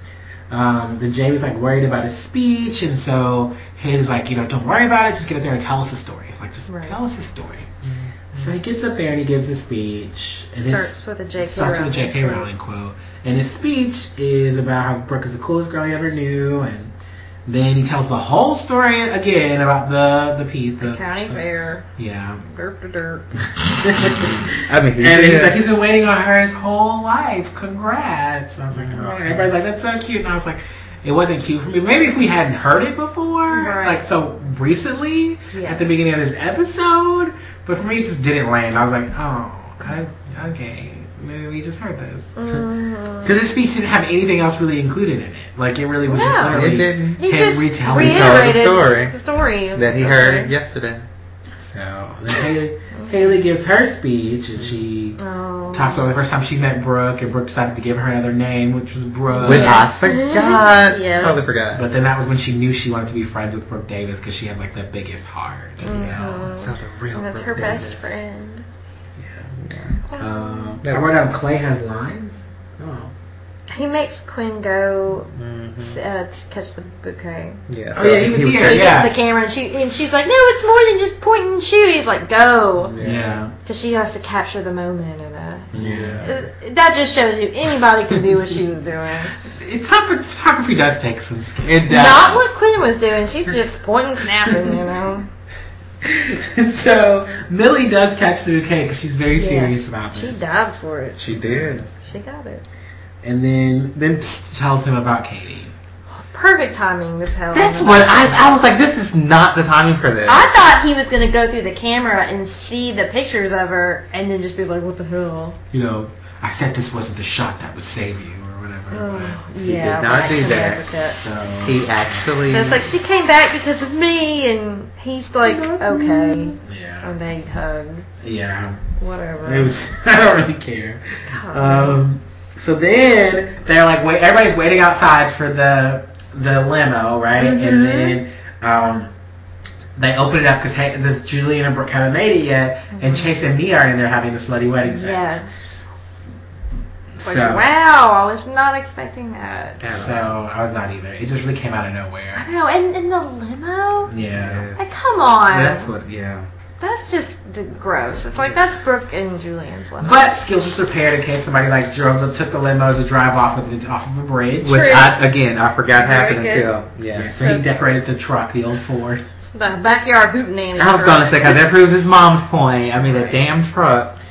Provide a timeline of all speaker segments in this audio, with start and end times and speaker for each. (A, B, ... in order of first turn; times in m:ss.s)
0:00.5-0:07.7 A
0:06.7-0:07.0 B
0:07.8-0:08.5 C
0:08.3-0:16.9 A
0:10.6-0:12.5 B
0:17.5-0:21.1 A
0:20.8-0:21.8 B
0:22.0-0:22.4 A
0:22.4-0:23.3 B
0:23.6-0:42.6 A
0:24.5-0:25.6 C
0:28.7-0:29.4 C
0:33.5-0:34.0 B
0:35.5-0:36.0 B
0:42.4-0:43.4 B
0:43.2-0:48.6 A
0:46.0-0:46.6 B
0:46.5-0:47.2 C
0:47.2-0:50.5 B
0:47.9-0:49.1 C
0:49.7-0:51.0 C
0:51.6-0:55.2 A
0:52.9-0:53.3 B
0:55.2-0:56.1 B
0:55.7-0:59.8 A
0:59.3-1:01.4 B
0:59.4-1:01.9 C
1:01.7-1:06.5 A
1:05.8-1:08.6 B
1:05.9-1:08.2 C
1:09.2-1:09.5 A
1:09.6-1:10.0 C
1:10.1-1:10.8 B
1:10.1-1:13.1 A
1:10.8-1:11.4 C
1:13.7-1:15.3 B
1:15.3-1:16.0 C
1:15.8-1:17.6 B
1:17.7-1:19.1 C
1:17.9-1:19.2 A
1:18.6-1:22.9 B
1:22.8-1:23.4 C
1:23.0-1:23.5 A
1:23.6-1:29.3 B
1:25.7-1:26.3 A
1:25.7-1:26.3 C
1:29.5-1:32.5 A
1:31.6-1:32.4 C
1:31.9-1:35.3 B
1:34.4-1:34.8 A
1:36.0-1:40.4 A
1:39.4-1:41.2 B
1:41.2-1:41.9 A
1:41.3-1:41.9 C
1:42.0-1:42.6 B
1:43.2-1:45.7 A
1:46.1-1:48.6 B
1:47.5-1:50.6 C
1:50.2-1:55.6 B
1:55.7-1:59.4 A
1:58.9-2:01.2 B
1:59.6-2:00.8 C
2:01.1-2:02.3 A
2:01.6-2:02.8 C
2:02.5-2:08.1 B
2:05.5-2:07.1 A
2:08.2-2:08.8 A
2:09.0-2:09.8 B
2:09.4-2:19.1 A
2:11.3-2:12.0 B
2:17.4-2:18.2 B
2:20.0-2:25.4 A
2:22.9-2:23.3 B
2:24.8-2:25.8 B
2:27.2-2:27.7 A
2:27.2-2:29.8 B
2:29.8-2:30.3 C
2:29.8-2:32.4 A
2:32.4-2:34.1 B
2:34.1-2:34.6 A
2:34.3-2:34.9 C
2:34.8-2:35.9 B
2:35.5-2:36.5 C
2:36.8-2:40.3 B
2:38.3-2:38.6 C
2:40.0-2:44.8 A
2:44.6-2:47.3 C
2:44.7-2:45.2 B
2:46.0-2:46.7 B
2:47.1-2:49.3 A
2:47.4-2:47.6 B
2:49.5-2:51.6 B
2:50.8-2:54.2 C
2:53.0-2:53.4 B